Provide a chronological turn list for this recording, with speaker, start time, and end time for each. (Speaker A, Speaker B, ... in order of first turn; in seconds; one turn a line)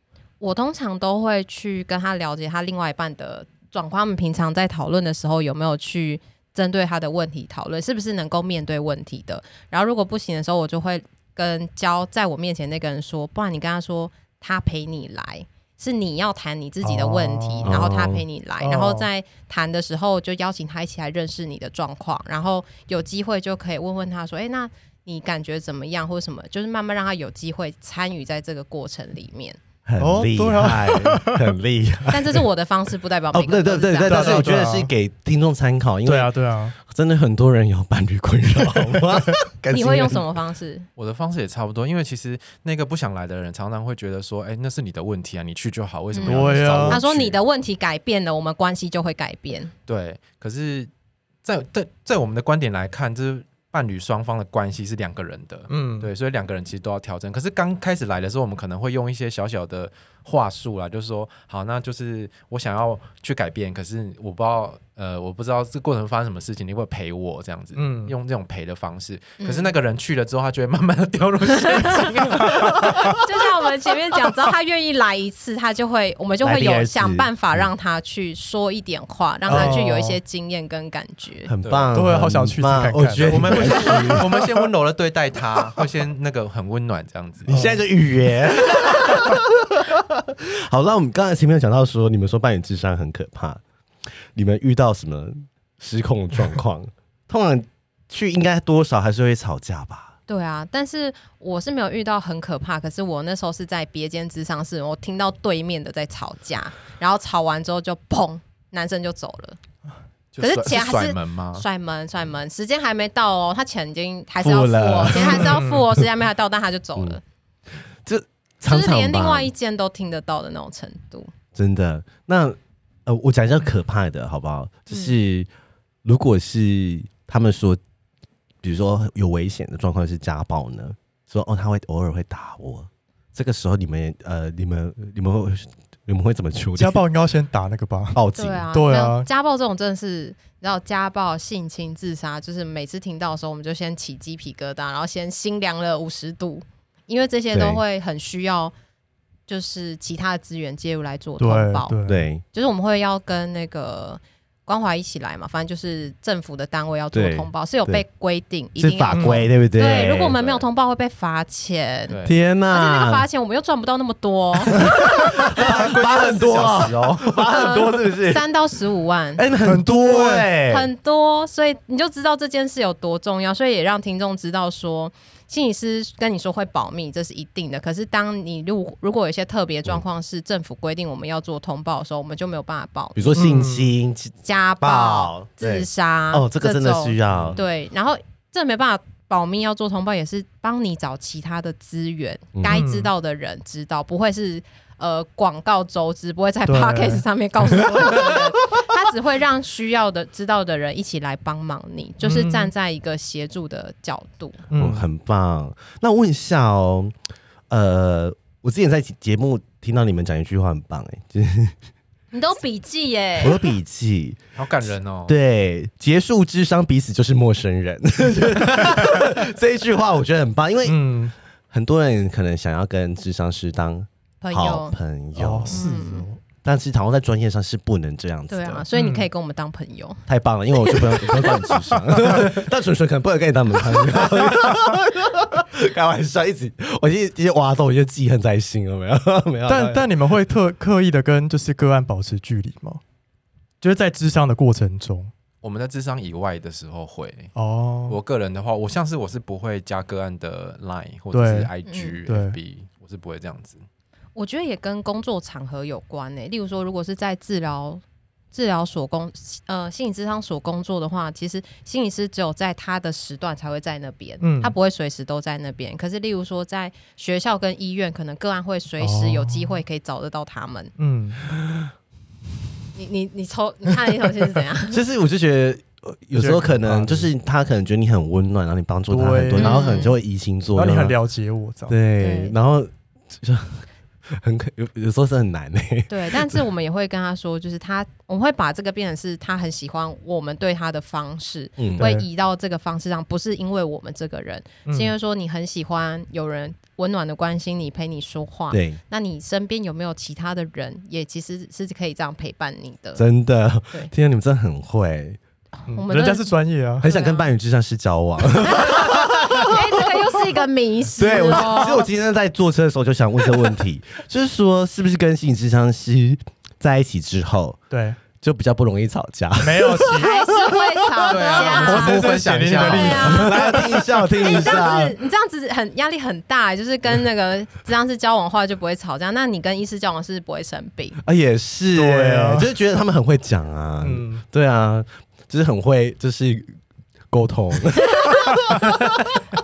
Speaker A: 0.4-29.6
Speaker B: 16.8-17.8
Speaker C: 17.6-18.2
Speaker B: 18.6-19.1
Speaker C: 29.9-32.5
Speaker B: 30.0-31.4
Speaker A: 32.1-34.5
Speaker C: 33.3-40.3
Speaker B: 34.0-34.9
Speaker B: 36.0-36.8
Speaker A: 39.7-40.9
Speaker D: 41.0-47.4
Speaker A: 46.1-49.7
Speaker B: 46.2-47.0
Speaker D: 49.9-50.9
Speaker D: 51.4-73.4
Speaker B: 55.7-56.1
Speaker B: 67.7-68.1
Speaker A: 69.4-69.7
Speaker A: 71.6-81.5
Speaker B: 72.5-73.1
Speaker C: 76.4-77.7
Speaker B: 79.5-80.2
Speaker C: 79.5-79.8
Speaker C: 81.5-84.3
Speaker D: 81.6-82.0
Speaker B: 81.9-84.2
Speaker D: 83.2-87.6
Speaker C: 87.5-93.6
Speaker B: 87.5-87.8
Speaker C: 94.3-100.1
Speaker A: 100.3-109.6
Speaker D: 110.3-111.7
Speaker A: 110.4-117.2
Speaker C: 114.4-116.1
Speaker B: 115.4-115.8
Speaker C: 118.0-119.5
Speaker A: 118.7-121.3
Speaker C: 121.5-125.5
Speaker C: 126.0-127.8
Speaker C: 128.6-137.0
Speaker B: 136.8-138.2
Speaker C: 138.1-138.7
Speaker A: 138.3-148.7
Speaker B: 138.7-139.3
Speaker C: 147.5-147.8
Speaker A: 149.5-151.9
Speaker B: 151.4-152.2
Speaker C: 152.1-152.4
Speaker A: 152.5-162.2
Speaker C: 157.1-158.0
Speaker C: 158.8-160.4
Speaker B: 159.1-159.4
Speaker D: 160.4-160.6
Speaker D: 162.1-162.4
Speaker C: 162.2-163.3
Speaker A: 162.7-165.6
Speaker C: 164.7-168.5
Speaker D: 165.2-167.5
Speaker A: 167.5-169.4
Speaker C: 169.4-170.9
Speaker B: 169.6-170.5
Speaker A: 170.6-183.4
Speaker C: 183.1-187.6
Speaker B: 183.3-183.9
Speaker A: 184.4-204.6
Speaker C: 192.6-192.8
Speaker B: 192.7-193.1
Speaker B: 196.7-197.2
Speaker B: 202.2-202.7
Speaker B: 204.7-205.1
Speaker C: 204.8-207.1
Speaker C: 207.7-211.8
Speaker A: 212.3-213.7
Speaker C: 213.4-214.4
Speaker D: 214.6-215.4
Speaker C: 215.3-221.1
Speaker B: 220.8-221.3
Speaker C: 221.7-225.9
Speaker A: 224.4-224.9
Speaker B: 225.4-226.4
Speaker A: 225.7-226.3
Speaker C: 226.6-228.9
Speaker A: 228.5-230.2
Speaker B: 228.9-229.3
Speaker C: 230.3-240.1
Speaker A: 230.8-231.7
Speaker B: 239.7-243.0
Speaker B: 243.8-245.3
Speaker D: 245.6-247.5
Speaker B: 247.6-248.2
Speaker D: 248.1-253.8
Speaker B: 251.3-251.7
Speaker A: 251.9-252.2
Speaker B: 252.3-252.6
Speaker A: 254.3-258.0
Speaker A: 258.5-270.9
Speaker B: 264.4-264.7
Speaker B: 269.0-269.8
Speaker B: 271.0-271.4
Speaker C: 271.5-271.8
Speaker A: 272.9-275.0
Speaker C: 274.9-281.1
Speaker B: 276.4-277.3
Speaker B: 279.1-279.8
Speaker A: 279.6-280.1
Speaker B: 280.7-281.9
Speaker C: 281.9-286.6
Speaker A: 282.2-282.6
Speaker A: 286.1-303.2
Speaker C: 291.8-292.1
Speaker B: 292.0-292.3
Speaker B: 294.9-295.1
Speaker C: 298.7-299.0
Speaker C: 303.1-305.4
Speaker B: 305.9-307.1
Speaker A: 305.9-306.5
Speaker C: 307.0-310.4
Speaker A: 307.0-307.4
Speaker A: 308.6-312.1
Speaker C: 311.1-317.8
Speaker B: 317.9-318.2
Speaker C: 318.4-321.3
Speaker B: 319.6-320.3
Speaker A: 320.1-322.2
Speaker D: 321.2-323.5
Speaker B: 321.6-324.1
Speaker C: 322.3-325.2
Speaker A: 322.8-323.8
Speaker A: 324.4-331.2
Speaker C: 331.2-336.7
Speaker B: 331.9-332.7
Speaker B: 334.0-334.4
Speaker C: 337.3-339.2
Speaker A: 338.1-338.4